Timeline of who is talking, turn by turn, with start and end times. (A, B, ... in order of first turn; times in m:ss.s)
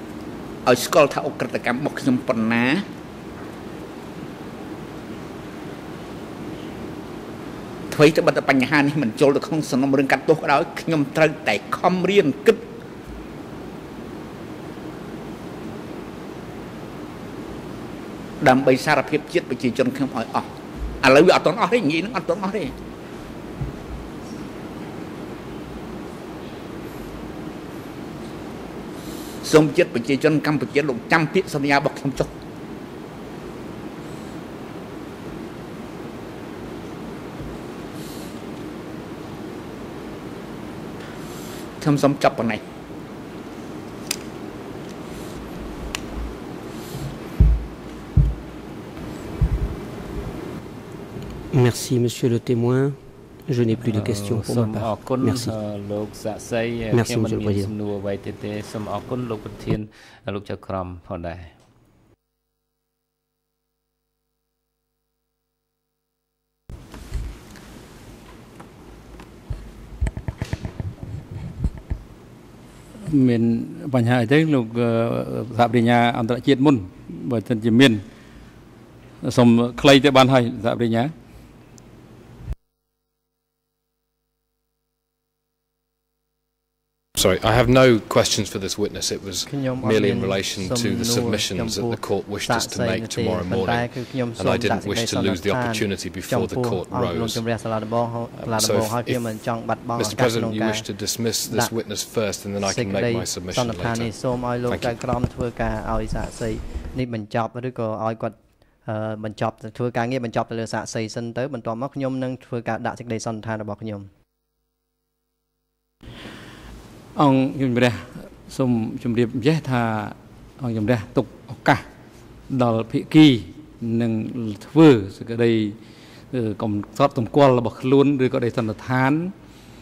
0:00.7-0:02.8 A
0:07.9-0:12.6 A
0:18.4-0:20.5 A
0:21.0-0:22.7 A
0:29.4-0:32.3 A
0:41.8-0:42.6 A
0:51.5-0:53.0 B
0:53.5-0:55.5 B
0:53.8-1:01.5 C
0:56.9-0:57.7 B
1:13.1-1:18.0 D
1:19.2-1:21.1 D
1:27.2-1:37.4 E
1:29.5-1:40.9 F
1:38.4-1:39.2 E
1:40.0-1:44.1 E
1:41.4-1:41.7 F
1:42.6-1:54.1 F
1:44.7-1:45.0 E
1:57.2-2:01.8 D
2:02.5-2:05.8 D
2:06.3-2:09.3 D